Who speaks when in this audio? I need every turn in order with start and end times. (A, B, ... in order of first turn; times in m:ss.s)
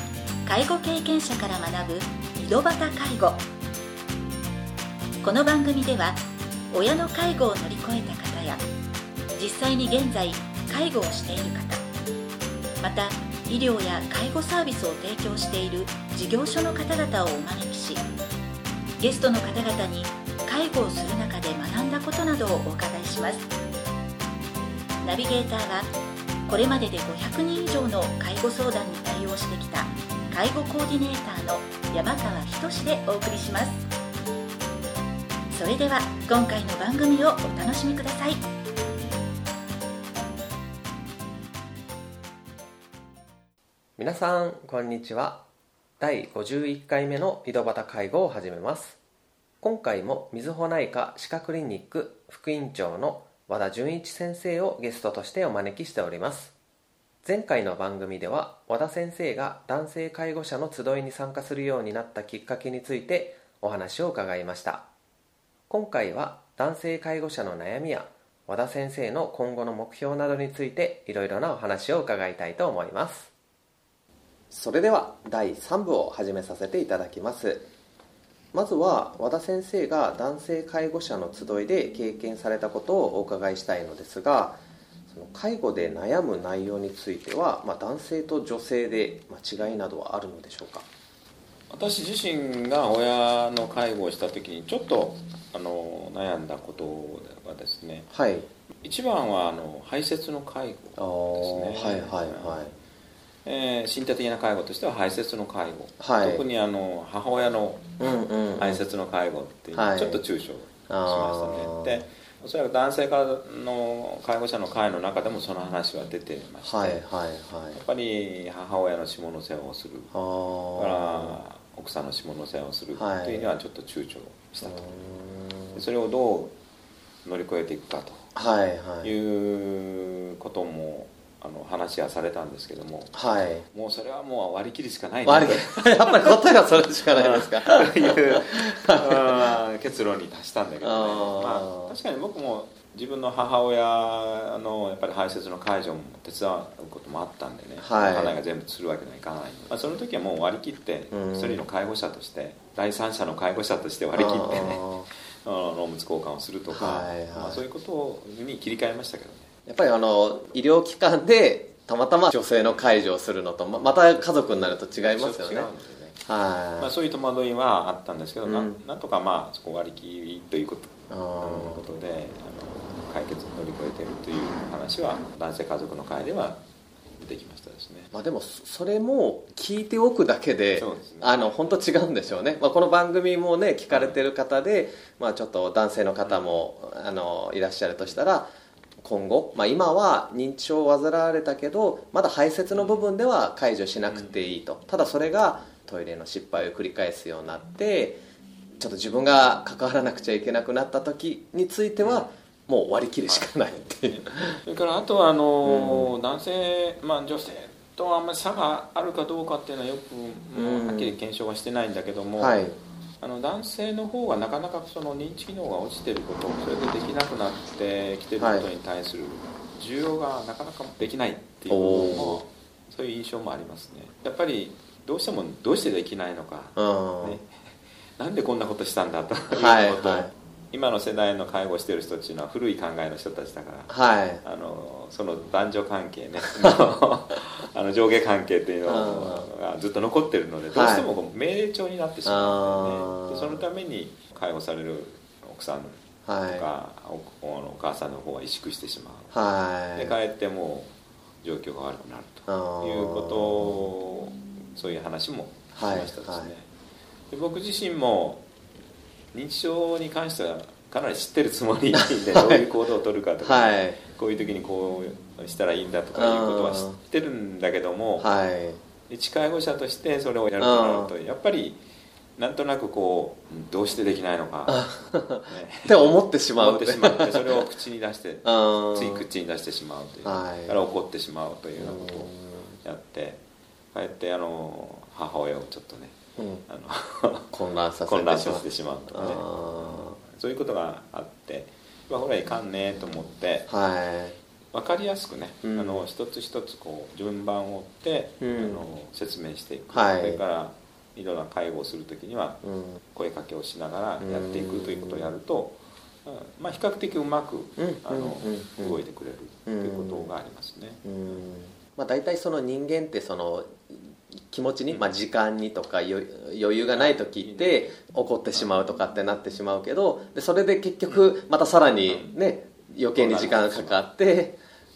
0:00.4-0:03.5 A
0:05.2-0:08.6 A
0:09.3-0:11.8 A
0:12.8-0:18.0 A
0:19.0-0:23.5 A
0:25.0-0:25.9 A
0:26.5-0:33.8 A
0:35.5-0:38.4 A
0:44.0-0:45.4 B
0:46.0-0:49.0 B
0:49.6-0:56.5 B
0:57.2-1:04.9 B
1:05.7-1:13.3 B
1:14.5-1:17.7 B
1:18.5-1:30.9 B
1:31.7-1:38.1 C
1:38.1-1:38.5 B
1:38.8-1:42.7 C
1:41.0-1:42.7 B
1:43.4-1:48.0 C
1:46.0-1:46.4 B
1:48.0-1:48.8 B
1:48.6-1:57.0 C
1:49.7-1:50.2 B
1:50.9-1:52.0 B
1:56.6-1:57.8 B
1:57.7-2:00.1 C
2:00.1-2:01.4 B
2:00.8-2:04.9 C
2:03.0-2:03.5 B
2:04.6-2:05.8 B
2:05.7-2:06.5 C
2:07.2-2:08.3 C
2:08.4-2:09.1 B
2:09.0-2:13.2 C
2:13.1-2:13.7 B
2:13.7-2:16.5 C
2:15.3-2:19.5 B
2:17.1-2:39.5 C
2:20.8-2:22.0 B
2:27.8-2:28.4 B
2:31.1-2:31.6 B
2:34.2-2:35.1 B
2:36.7-2:37.6 B
2:39.7-2:45.7 B
2:44.9-2:46.2 C
2:46.3-2:46.9 B
2:46.8-2:56.6 C
2:48.4-2:48.8 B
2:51.1-2:51.8 B
2:57.2-2:58.1 C
2:58.1-3:08.5 B
3:00.7-3:01.8 C
3:03.9-3:04.2 C
3:06.2-3:06.6 C
3:09.0-3:18.2 B
3:12.7-3:13.0 C
3:14.1-3:14.5 C
3:18.8-3:24.6 B
3:22.0-3:22.3 C
3:24.1-3:32.6 C
3:25.6-3:26.1 B
3:30.6-3:31.2 B
3:32.4-3:32.8 B
3:33.2-4:09.3 C
3:38.4-3:38.7 B
3:41.7-3:42.4 B
3:46.8-3:47.4 B
3:49.5-3:50.3 B
3:53.9-3:54.4 B
3:58.9-3:59.5 B
4:00.7-4:01.1 B
4:02.3-4:03.6 B
4:06.3-4:06.7 B
4:09.3-4:10.2 B
4:10.0-4:16.7 C
4:12.5-4:13.9 B
4:15.8-4:16.5 B
4:17.3-4:18.4 C
4:19.3-4:28.3 C
4:22.3-4:22.6 B
4:23.4-4:24.0 B
4:26.2-4:27.0 B
4:28.2-4:28.8 B
4:29.1-4:31.8 C
4:30.6-4:31.1 B
4:32.4-4:34.9 C
4:34.7-4:37.5 B
4:35.4-4:42.3 C
4:38.4-4:39.2 B
4:40.2-4:40.8 B
4:41.8-4:42.8 B
4:42.8-4:43.4 C
4:43.9-4:47.5 C
4:46.4-4:46.6 B
4:47.5-4:50.2 B
4:48.1-4:53.7 C
4:53.7-4:54.4 B
4:54.7-5:11.0 C
4:55.6-4:56.1 B
4:58.4-4:58.8 B
4:59.9-5:00.4 B
5:02.6-5:03.0 B
5:04.2-5:05.3 B
5:07.8-5:09.0 B
5:09.7-5:10.3 B
5:11.0-5:24.6 B
5:16.9-5:17.9 C
5:22.1-5:22.4 C
5:23.2-5:24.0 C